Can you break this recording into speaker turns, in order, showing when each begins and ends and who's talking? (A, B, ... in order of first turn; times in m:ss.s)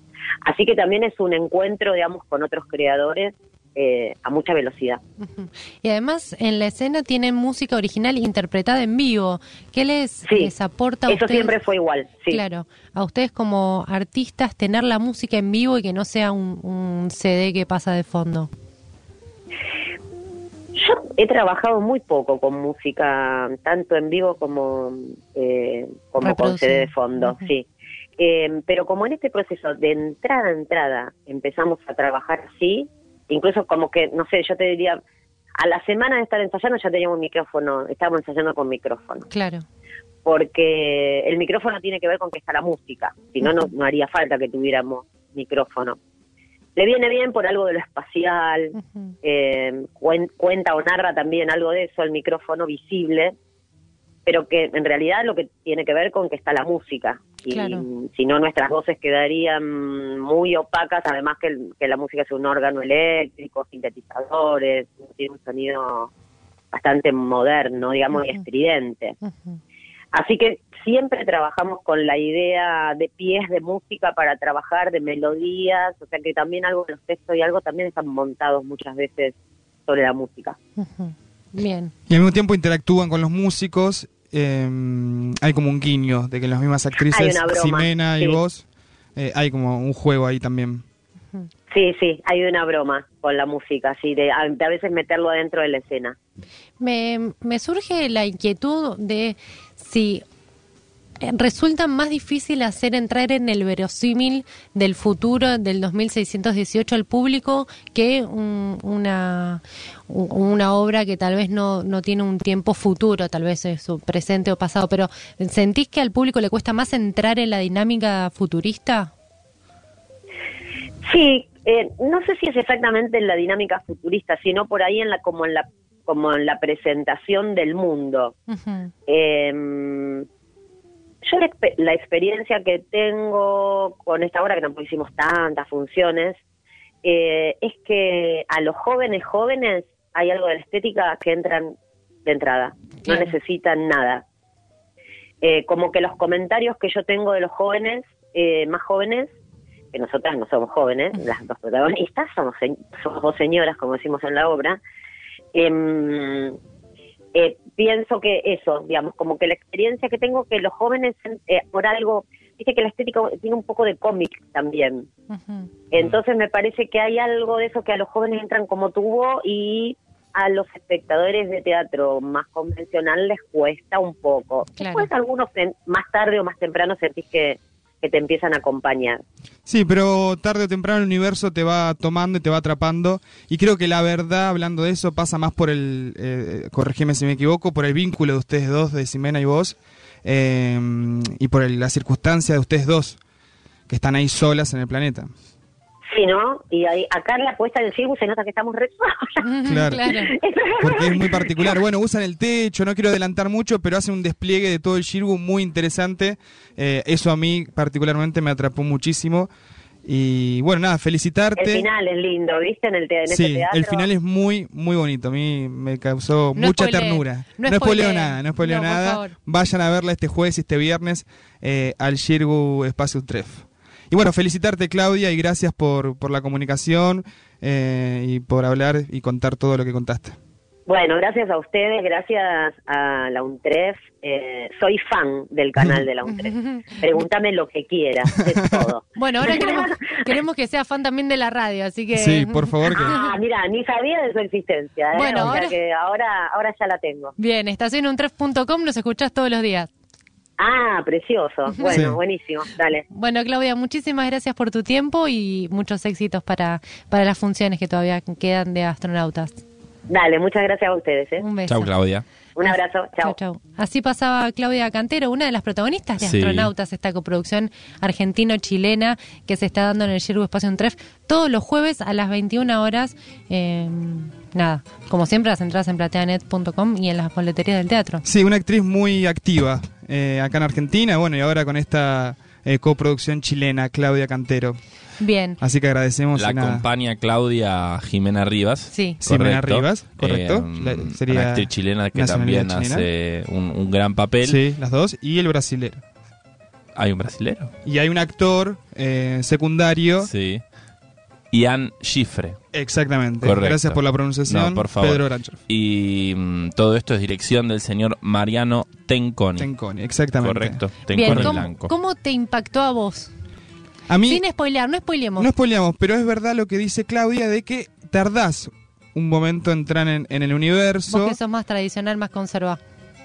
0:00.4-0:05.0 A
0:05.2-0:11.5 B
0:10.2-0:10.5 A
0:11.1-0:12.4 A
0:12.3-0:18.5 B
0:20.8-0:27.7 A
0:26.2-0:27.4 B
0:28.2-0:35.0 A
0:35.6-0:39.2 A
0:39.3-0:39.6 B
0:40.2-0:46.0 A
0:46.8-0:53.3 A
0:48.8-0:49.1 B
0:54.3-1:06.1 A
0:57.5-0:57.9 B
1:06.7-1:09.2 A
1:08.1-1:08.4 B
1:09.2-1:09.6 B
1:10.1-1:19.4 A
1:19.9-1:20.6 A
1:20.8-1:21.9 B
1:22.1-1:28.6 C
1:27.1-1:28.4 A
1:29.2-1:30.8 C
1:31.7-1:36.2 A
1:36.8-1:40.2 B
1:41.2-1:59.1 B
2:01.1-2:08.4 A
2:08.5-2:08.9 B
2:09.1-2:10.3 A
2:11.2-2:16.4 A
2:17.0-2:21.7 A
2:22.3-2:24.2 A
2:23.1-2:23.3 B
2:25.4-2:29.3 A
2:29.9-2:34.8 A
2:35.5-2:36.6 A
2:37.3-2:45.1 A
2:45.3-2:45.7 B
2:45.9-2:59.2 A
2:54.8-2:55.1 B
2:59.7-3:13.2 C
3:13.9-3:15.3 C
3:16.1-3:19.4 A
3:19.4-3:20.3 B
3:19.7-3:20.0 C
3:20.0-3:21.8 A
3:20.8-3:29.5 C
3:30.0-3:31.9 C
3:31.6-3:34.1 A
3:33.3-3:50.4 C
3:36.6-3:39.3 B
3:50.9-4:00.4 A
3:56.3-3:57.2 B
3:59.2-4:03.2 B
4:02.1-4:03.2 C
4:03.0-4:07.3 A
4:05.1-4:05.8 B
4:07.4-4:09.9 B
4:10.6-4:13.0 A
4:11.9-4:12.2 C
4:13.1-4:19.6 B
4:20.1-4:21.4 A
4:21.4-4:21.9 B
4:21.7-4:22.2 D
4:22.6-4:23.4 A
4:22.6-4:38.2 B
4:26.2-4:26.7 D
4:38.2-4:44.8 C
4:45.2-4:45.6 B
4:45.6-4:46.9 C
4:46.4-4:54.6 D
4:48.9-4:49.2 B
4:49.2-4:53.1 C
4:54.4-4:56.0 C
4:57.0-4:57.7 D
4:57.8-5:00.3 C
5:00.2-5:00.6 D
5:01.5-5:02.6 D
5:02.7-5:05.6 C
5:03.4-5:09.7 D
5:09.6-5:11.6 C
5:10.4-5:11.9 D
5:11.1-5:13.3 B
5:14.1-5:14.4 C
5:14.3-5:15.5 B
5:15.4-5:21.4 C
5:21.1-5:22.8 B